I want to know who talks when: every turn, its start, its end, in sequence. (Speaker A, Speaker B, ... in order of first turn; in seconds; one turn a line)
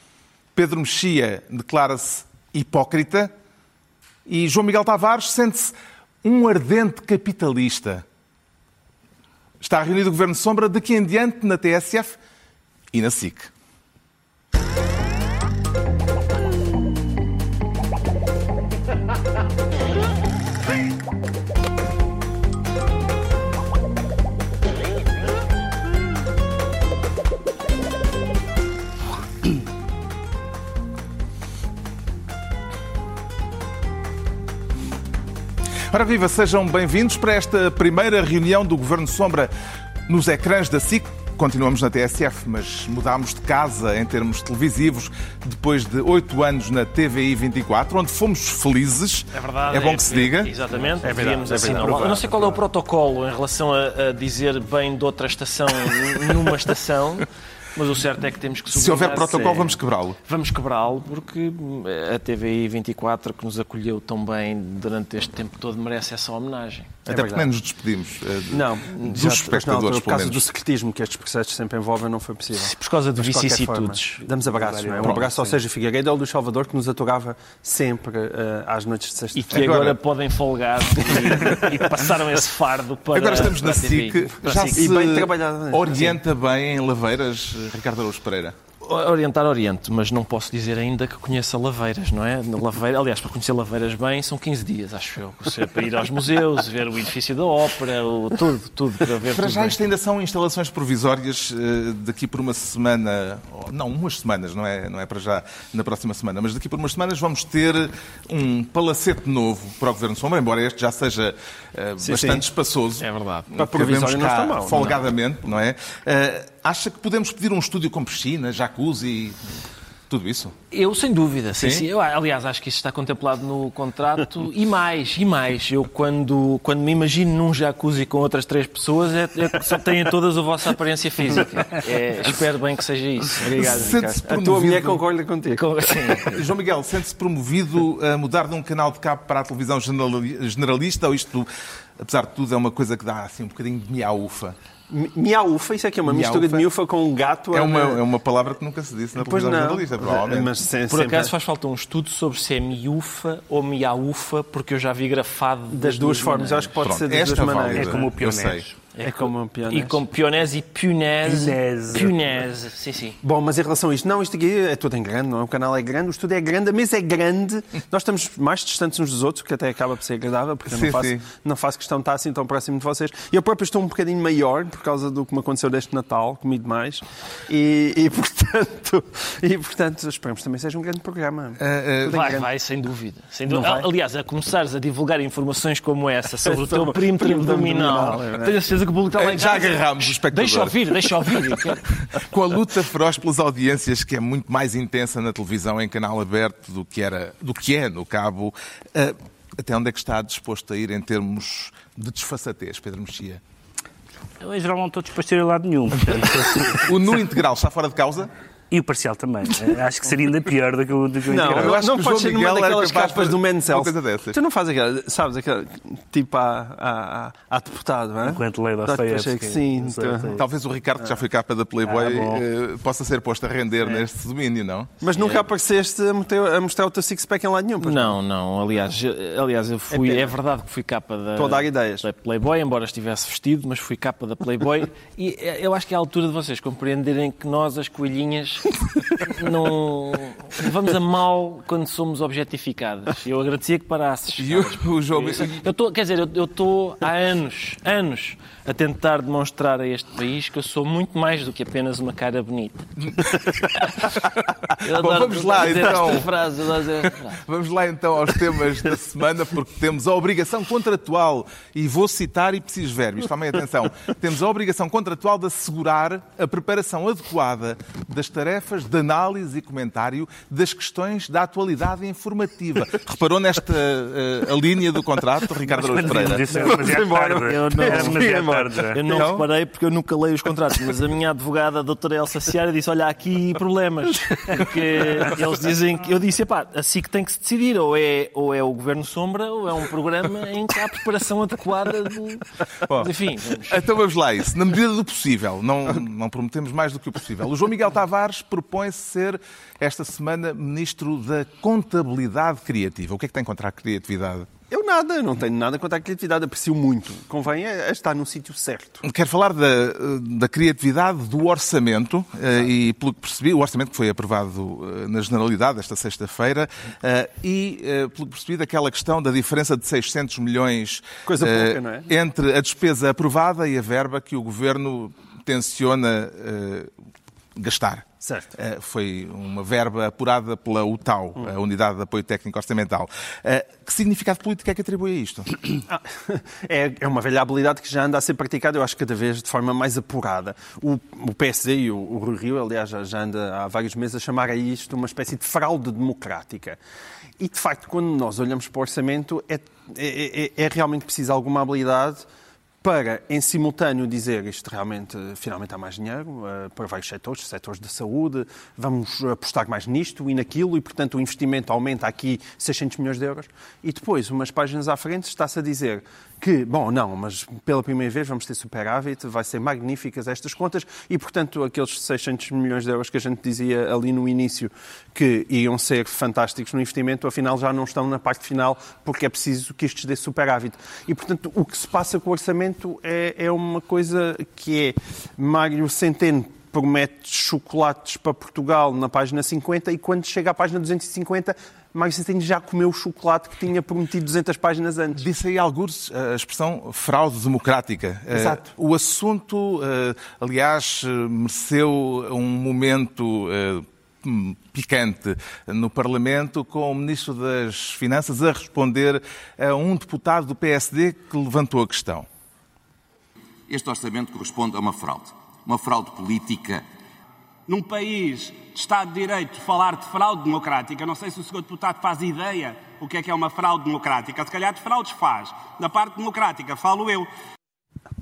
Speaker A: 0.6-3.3
Speaker A: 4.3-8.0
Speaker A: 9.6-12.2
Speaker A: 12.9-13.5
Speaker A: 35.9-39.5
Speaker A: 40.1-50.5
Speaker B: 49.3-67.0
Speaker C: 51.0-52.6
Speaker A: 58.7-60.2
Speaker A: 67.1-70.5
Speaker C: 67.1-67.5
Speaker C: 68.5-80.0
Speaker B: 72.5-74.3
Speaker D: 74.5-75.6
Speaker B: 79.3-85.0
Speaker A: 79.5-80.0
Speaker C: 81.2-81.8
Speaker A: 83.1-88.6
Speaker C: 84.5-86.2
Speaker B: 85.9-86.2
Speaker B: 88.8-99.8
Speaker A: 99.3-119.4
Speaker C: 112.0-112.5
Speaker B: 113.0-113.5
Speaker C: 113.5-115.0
Speaker B: 114.7-115.0
Speaker A: 120.1-120.6
Speaker B: 120.7-134.0
Speaker A: 121.6-121.9
Speaker C: 133.4-135.8
Speaker A: 133.6-135.0
Speaker B: 135.6-136.5
Speaker A: 136.3-144.6
Speaker C: 144.9-148.0
Speaker A: 146.1-146.7
Speaker A: 147.5-150.5
Speaker C: 149.2-151.3
Speaker B: 150.9-156.9
Speaker C: 155.7-158.1
Speaker A: 156.8-158.7
Speaker D: 157.5-158.8
Speaker B: 158.9-163.2
Speaker C: 159.0-160.0
Speaker D: 161.2-162.2
Speaker C: 163.2-182.5
Speaker A: 170.7-171.2
Speaker A: 181.6-182.2
Speaker B: 182.1-191.9
Speaker C: 183.5-183.9
Speaker C: 186.5-188.6
Speaker A: 189.2-190.8
Speaker A: 192.1-203.4
Speaker D: 204.4-206.9
Speaker A: 206.7-208.3
Speaker D: 208.7-211.8
Speaker C: 211.3-220.4
Speaker A: 211.5-214.4
Speaker D: 218.2-220.4
Speaker A: 220.3-224.9
Speaker D: 221.8-222.4
Speaker C: 225.0-228.2
Speaker B: 225.0-225.4
Speaker B: 227.8-254.2
Speaker C: 229.9-230.3
Speaker C: 231.4-232.1
Speaker A: 244.4-245.6
Speaker B: 254.8-257.4
Speaker A: 254.8-256.3
Speaker A: 257.3-276.5
Speaker D: 275.8-279.0
Speaker C: 276.5-279.3
Speaker B: 277.2-278.4
Speaker B: 278.9-293.8
Speaker A: 279.1-279.4
Speaker A: 293.7-304.5
Speaker C: 304.7-309.0
Speaker A: 309.0-326.9
Speaker C: 321.3-322.1
Speaker A: 327.6-335.6
Speaker C: 328.2-328.5
Speaker C: 335.9-346.8
Speaker C: 347.4-352.3
Speaker C: 352.8-395.2
Speaker A: 395.2-412.3
Speaker C: 398.3-398.6
Speaker E: 413.7-416.9
Speaker F: 417.7-427.3